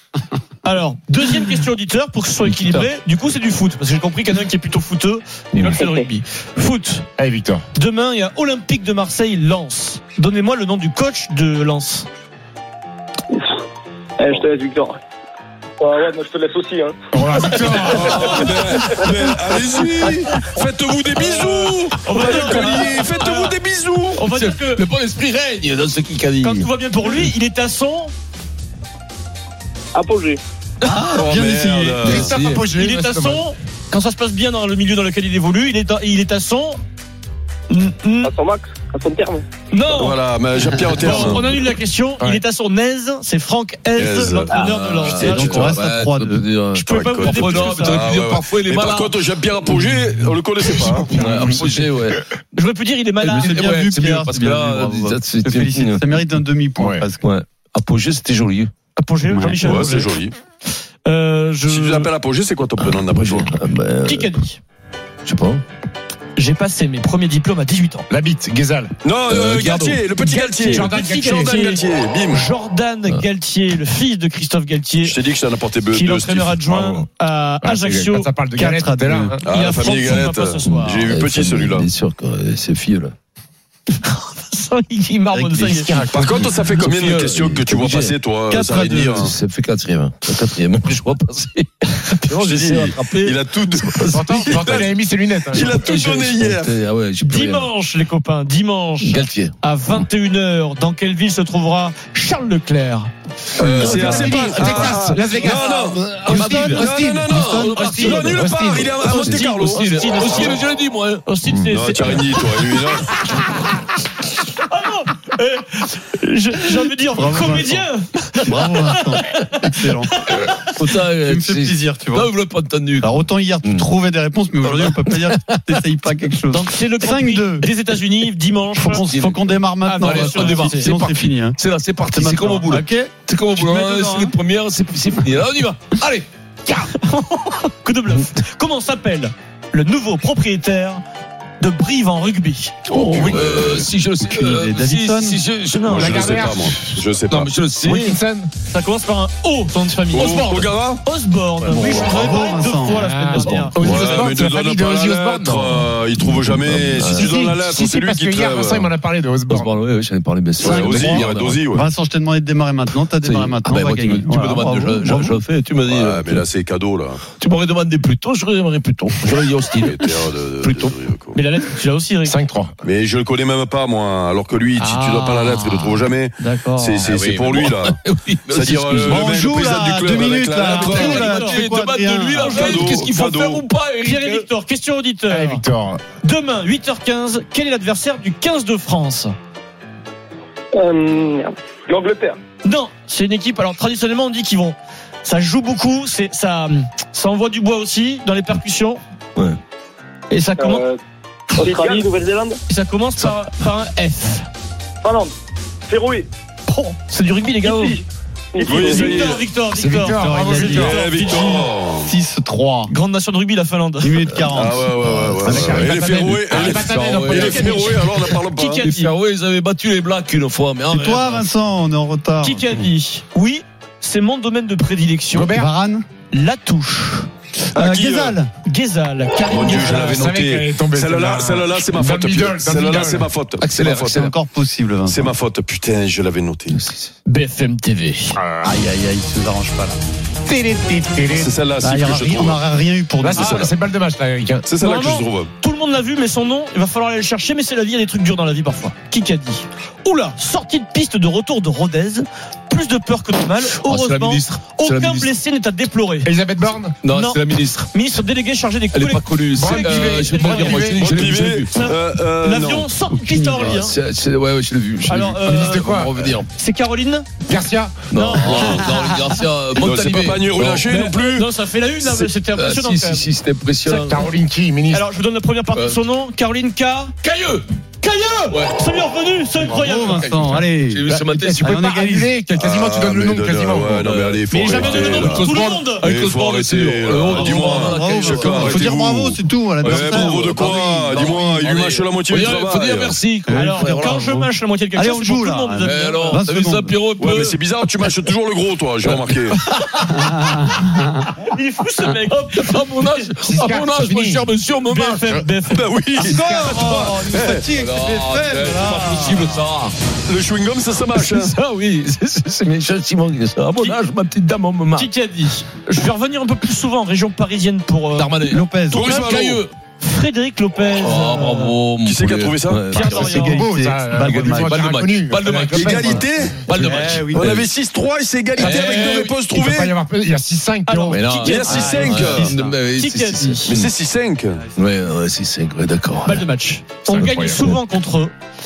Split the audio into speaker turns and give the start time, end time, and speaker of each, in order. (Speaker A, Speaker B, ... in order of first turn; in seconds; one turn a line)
Speaker A: 0.6-7.1
Speaker B: 2.4-2.9
Speaker B: 5.5-5.8
Speaker C: 7.2-7.6
Speaker A: 7.7-12.1
Speaker D: 14.2-15.0
Speaker D: 15.8-16.9
Speaker C: 17.1-18.1
Speaker D: 17.6-18.4
Speaker A: 17.6-18.8
Speaker E: 17.8-24.2
Speaker B: 21.1-22.8
Speaker A: 22.0-23.5
Speaker A: 24.1-24.8
Speaker B: 24.3-26.7
Speaker A: 26.4-28.1
Speaker D: 29.9-30.4
Speaker F: 30.8-32.2
Speaker E: 31.1-32.3
Speaker C: 32.0-33.4
Speaker B: 32.1-32.6
Speaker A: 32.7-36.8
Speaker A: 37.7-38.3
Speaker D: 38.2-39.4
Speaker A: 39.7-40.2
Speaker E: 39.9-41.5
Speaker A: 40.9-45.7
Speaker E: 43.9-45.4
Speaker B: 44.5-49.2
Speaker F: 45.1-46.5
Speaker A: 46.7-48.0
Speaker E: 46.9-51.2
Speaker B: 50.7-52.2
Speaker F: 51.2-51.7
Speaker A: 52.5-53.7
Speaker B: 53.2-56.2
Speaker F: 53.2-57.2
Speaker C: 56.8-57.1
Speaker B: 57.2-58.7
Speaker A: 59.0-60.2
Speaker F: 59.2-59.8
Speaker E: 59.6-60.3
Speaker A: 61.0-62.1
Speaker E: 61.6-63.5
Speaker B: 62.8-64.3
Speaker A: 64.0-64.6
Speaker B: 65.2-65.6
Speaker A: 66.3-68.1
Speaker C: 68.1-68.9
Speaker E: 69.0-72.4
Speaker B: 69.3-70.5
Speaker C: 70.3-71.7
Speaker A: 70.6-75.2
Speaker E: 75.0-76.7
Speaker A: 75.9-78.7
Speaker C: 76.7-77.1
Speaker C: 77.6-79.4
Speaker F: 78.5-79.3
Speaker E: 79.4-81.9
Speaker A: 79.5-81.0
Speaker B: 80.6-83.1
Speaker A: 84.0-85.9
Speaker F: 85.3-86.5
Speaker C: 85.4-86.6
Speaker E: 86.1-89.3
Speaker B: 86.5-94.8
Speaker F: 88.5-89.2
Speaker E: 92.3-96.8
Speaker C: 94.0-95.8
Speaker B: 95.5-97.7
Speaker A: 97.2-103.1
Speaker B: 99.0-99.5
Speaker E: 103.6-109.9
Speaker C: 103.6-108.9
Speaker B: 103.8-111.6
Speaker A: 103.8-104.9
Speaker F: 106.2-108.4
Speaker A: 109.0-110.7
Speaker A: 111.2-112.7
Speaker E: 111.7-113.1
Speaker A: 114.5-119.3
Speaker F: 117.1-117.8
Speaker F: 118.4-120.3
Speaker A: 120.2-120.7
Speaker B: 120.7-123.9
Speaker F: 121.2-122.3
Speaker F: 123.0-127.7
Speaker B: 124.6-125.7
Speaker A: 126.5-129.0
Speaker F: 128.8-133.1
Speaker B: 128.9-136.9
Speaker A: 129.8-130.9
Speaker A: 132.7-134.3
Speaker A: 137.0-141.0
Speaker A: 141.6-142.8
Speaker B: 142.9-146.5
Speaker E: 142.9-143.9
Speaker F: 144.2-145.4
Speaker A: 145.7-146.2
Speaker E: 145.9-147.6
Speaker C: 145.9-146.8
Speaker B: 147.2-148.2
Speaker C: 147.7-148.5
Speaker A: 148.7-150.5
Speaker E: 150.1-151.0
Speaker C: 150.2-150.7
Speaker A: 151.0-153.8
Speaker B: 151.6-152.1
Speaker F: 152.0-153.1
Speaker C: 152.9-155.9
Speaker B: 153.3-154.1
Speaker E: 153.8-158.9
Speaker B: 156.4-157.5
Speaker C: 157.1-159.7
Speaker B: 159.5-161.6
Speaker C: 160.6-161.3
Speaker E: 160.6-161.9
Speaker F: 161.7-165.4
Speaker B: 163.2-166.5
Speaker E: 165.8-167.2
Speaker B: 167.4-170.9
Speaker E: 169.7-171.4
Speaker A: 171.3-172.5
Speaker C: 172.2-172.8
Speaker E: 172.8-181.1
Speaker A: 174.8-177.1
Speaker B: 177.0-179.4
Speaker F: 179.0-182.5
Speaker B: 180.6-184.5
Speaker A: 180.6-181.7
Speaker A: 182.3-183.0
Speaker E: 182.5-183.6
Speaker A: 184.0-185.6
Speaker C: 185.3-186.0
Speaker A: 186.2-189.3
Speaker D: 190.7-192.4
Speaker A: 192.6-199.0
Speaker A: 200.3-200.8
Speaker D: 200.6-200.9
Speaker D: 201.6-202.6
Speaker A: 202.7-204.4
Speaker D: 205.0-205.3
Speaker D: 205.9-206.3
Speaker A: 206.7-208.0
Speaker D: 207.7-208.0
Speaker D: 208.5-209.1
Speaker E: 208.6-209.4
Speaker A: 208.6-211.7
Speaker C: 209.7-211.0
Speaker F: 210.2-210.9
Speaker E: 210.7-212.1
Speaker F: 212.1-212.9
Speaker A: 212.9-214.3
Speaker F: 214.0-215.3
Speaker E: 214.5-218.8
Speaker C: 215.4-218.0
Speaker B: 216.2-221.4
Speaker A: 218.5-219.1
Speaker F: 220.9-222.7
Speaker A: 222.4-225.5
Speaker C: 225.3-225.7
Speaker F: 225.5-226.0
Speaker A: 226.3-227.3
Speaker F: 227.7-228.5
Speaker E: 227.7-228.4
Speaker A: 228.6-230.3
Speaker E: 229.4-234.3
Speaker C: 230.0-233.3
Speaker B: 233.6-234.3
Speaker F: 233.9-235.3
Speaker E: 235.1-236.8
Speaker B: 236.7-237.1
Speaker A: 237.2-238.4
Speaker C: 238.3-238.7
Speaker F: 238.6-240.0
Speaker C: 240.5-241.5
Speaker E: 241.3-242.6
Speaker F: 241.8-243.5
Speaker C: 243.2-244.7
Speaker E: 243.3-243.7
Speaker E: 244.7-245.5
Speaker A: 244.8-256.3
Speaker B: 253.8-255.3
Speaker C: 256.2-256.9
Speaker B: 256.7-257.9
Speaker A: 257.1-263.9
Speaker B: 258.9-261.7
Speaker C: 259.5-261.4
Speaker E: 260.8-262.9
Speaker F: 263.1-263.8
Speaker B: 263.6-266.5
Speaker A: 265.1-265.9
Speaker C: 265.4-266.1
Speaker A: 266.5-267.3
Speaker C: 267.4-268.0
Speaker B: 268.1-271.2
Speaker A: 268.1-269.1
Speaker E: 268.4-268.9
Speaker E: 269.7-271.5
Speaker A: 270.9-273.3
Speaker E: 272.0-272.3
Speaker B: 272.5-274.3
Speaker C: 273.9-275.0
Speaker A: 274.9-277.1
Speaker B: 277.2-277.6
Speaker A: 278.0-280.3
Speaker B: 279.7-281.8
Speaker F: 279.8-282.4
Speaker C: 281.1-284.1
Speaker E: 282.5-293.2
Speaker B: 284.0-289.0
Speaker A: 284.5-286.2
Speaker C: 285.4-285.9
Speaker F: 287.3-291.7
Speaker B: 289.8-294.4
Speaker F: 293.5-297.0
Speaker A: 293.5-296.4
Speaker B: 295.8-298.2
Speaker E: 297.2-299.6
Speaker B: 299.0-300.5
Speaker F: 300.1-301.4
Speaker A: 301.4-303.7
Speaker B: 302.6-305.4
Speaker C: 303.4-304.5
Speaker A: 304.9-305.9
Speaker E: 305.7-307.6
Speaker F: 306.2-309.6
Speaker C: 306.3-306.8
Speaker A: 306.7-307.0
Speaker B: 307.7-309.9
Speaker E: 310.2-311.5
Speaker B: 311.1-315.1
Speaker A: 314.9-319.4
Speaker B: 318.1-319.7
Speaker F: 318.5-319.1
Speaker E: 318.9-319.6
Speaker A: 320.0-321.8
Speaker B: 321.0-323.6
Speaker E: 322.0-323.0
Speaker A: 322.9-323.6
Speaker F: 323.0-324.8
Speaker C: 323.4-326.2
Speaker B: 324.2-327.7
Speaker E: 325.7-326.7
Speaker F: 326.7-327.4
Speaker E: 327.3-329.9
Speaker B: 328.6-329.4
Speaker C: 328.6-331.3
Speaker A: 330.9-333.7
Speaker B: 331.1-333.9
Speaker E: 331.4-332.6
Speaker F: 331.6-332.5
Speaker E: 333.6-334.6
Speaker B: 334.8-336.4
Speaker A: 336.2-338.3
Speaker C: 337.1-337.6
Speaker B: 337.1-337.7